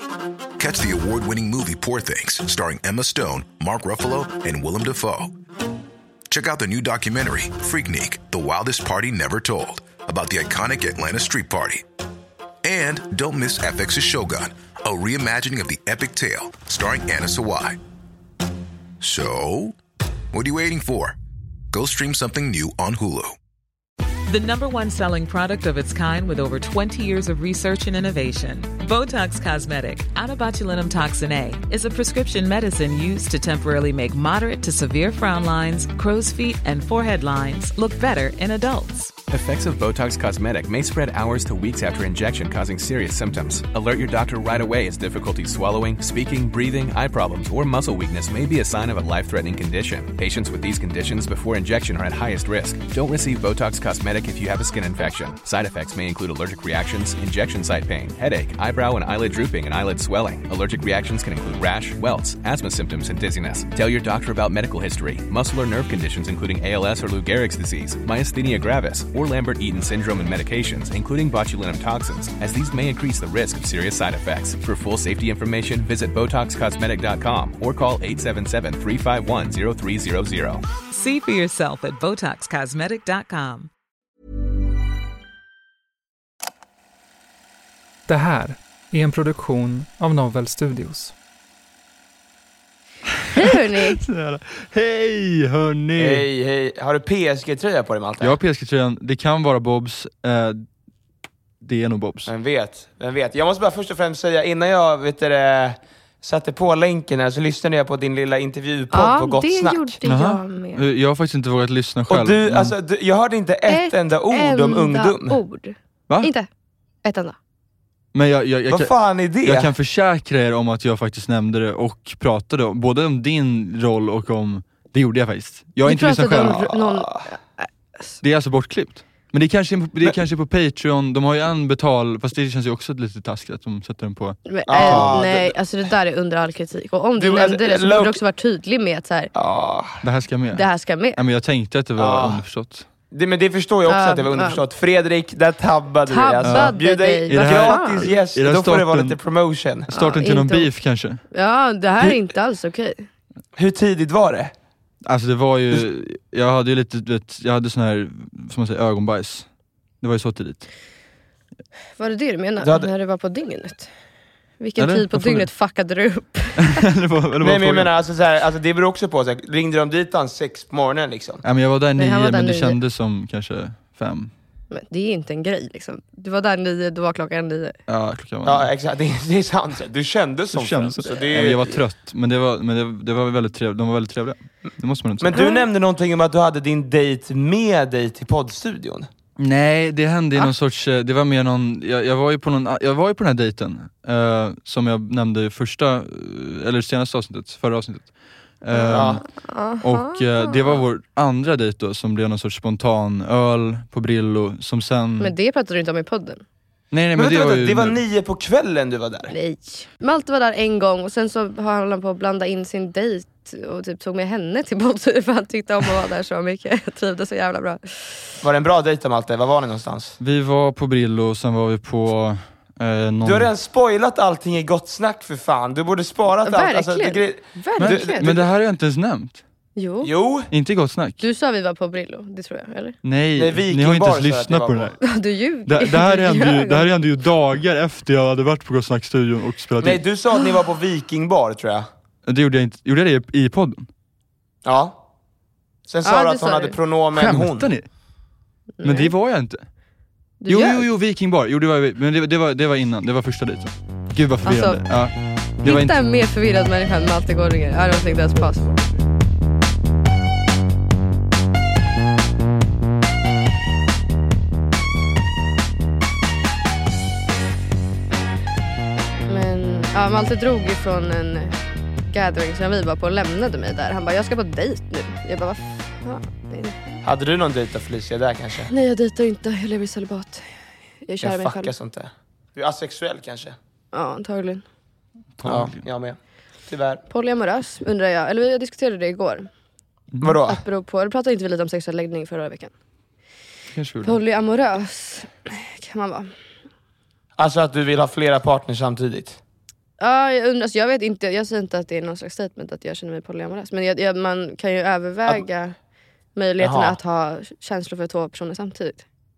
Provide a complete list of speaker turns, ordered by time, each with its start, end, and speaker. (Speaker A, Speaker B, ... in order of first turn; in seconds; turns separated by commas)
Speaker A: 0.6-5.3, Speaker A: 6.3-11.8, Speaker A: 12.6-17.8, Speaker A: 19.0-19.8, Speaker A: 20.3-21.2, Speaker A: 21.7-23.4, Speaker B: 24.3-39.1, Speaker C: 39.3-80.6, Speaker B: 80.9-83.7, Speaker D: 88.1-91.1, Speaker E: 93.2-96.3, Speaker F: 93.3-94.0, Speaker G: 96.0-98.4, Speaker E: 98.2-100.7, Speaker E: 101.6-102.3, Speaker G: 102.3-110.0, Speaker F: 108.9-110.8, Speaker E: 110.0-112.8, Speaker G: 112.1-115.4, Speaker F: 113.7-116.5, Speaker F: 117.0-117.4, Speaker E: 118.1-126.7, Speaker G: 118.7-119.7, Speaker F: 125.8-128.2, Speaker G: 126.3-127.3, Speaker E: 128.2-135.2, Speaker F: 134.5-139.3, Speaker G: 134.7-135.6, Speaker G: 137.2-138.2, Speaker G: 139.3-140.0, Speaker E: 140.0-142.9, Speaker F: 140.5-141.2, Speaker G: 142.0-142.4, Speaker G: 143.1-149.9, Speaker F: 143.9-144.6, Speaker F: 146.1-148.2, Speaker E: 146.4-146.8, Speaker E: 147.3-149.2, Speaker E: 149.9-151.2, Speaker F: 149.9-150.7, Speaker F: 151.3-153.1, Speaker G: 153.6-154.5, Speaker E: 155.0-159.5, Speaker E: 160.0-160.7, Speaker F: 162.0-163.9, Speaker G: 162.6-162.9, Speaker F: 164.6-166.8, Speaker E: 164.8-165.5, Speaker E: 166.6-167.9, Speaker G: 167.4-171.4, Speaker E: 171.4-174.3, Speaker F: 172.0-172.8, Speaker F: 174.7-177.8, Speaker E: 177.9-178.7, Speaker G: 178.4-181.8, Speaker E: 180.5-185.4, Speaker G: 185.2-189.1, Speaker F: 185.3-185.7, Speaker E: 189.4-199.3, Speaker F: 198.7-200.8, Speaker G: 198.9-199.2, Speaker E: 199.8-205.3, Speaker F: 205.2-206.4, Speaker E: 206.9-208.0, Speaker G: 207.2-209.3, Speaker F: 209.3-218.2, Speaker G: 218.4-220.2, Speaker E: 220.2-223.5, Speaker G: 223.2-228.5, Speaker F: 226.5-228.3, Speaker E: 227.8-229.4, Speaker F: 229.8-230.1, Speaker G: 230.0-230.5, Speaker E: 230.5-231.2, Speaker F: 231.2-233.0, Speaker E: 233.0-235.0, Speaker G: 233.4-235.0, Speaker F: 235.0-236.9, Speaker E: 235.7-240.0, Speaker G: 239.8-241.9, Speaker E: 242.3-243.9, Speaker G: 244.7-245.0, Speaker G: 245.9-247.7, Speaker F: 246.0-246.8, Speaker E: 247.1-247.9, Speaker F: 248.8-249.1, Speaker E: 248.8-249.7, Speaker F: 250.4-250.9, Speaker E: 250.5-256.0, Speaker F: 254.4-258.9, Speaker F: 269.3-271.6, Speaker F: 272.1-276.8, Speaker G: 277.0-278.7, Speaker F: 278.7-280.5, Speaker F: 281.1-281.7, Speaker G: 281.2-283.6, Speaker F: 283.9-284.6, Speaker E: 285.4-285.8, Speaker G: 285.4-286.2, Speaker G: 286.7-287.0, Speaker F: 287.1-289.5, Speaker E: 290.1-290.4, Speaker G: 290.2-290.6, Speaker F: 290.5-292.7, Speaker E: 293.7-294.2, Speaker F: 294.0-296.3, Speaker G: 297.4-299.4, Speaker F: 300.0-305.7, Speaker F: 306.4-309.0, Speaker G: 306.6-307.0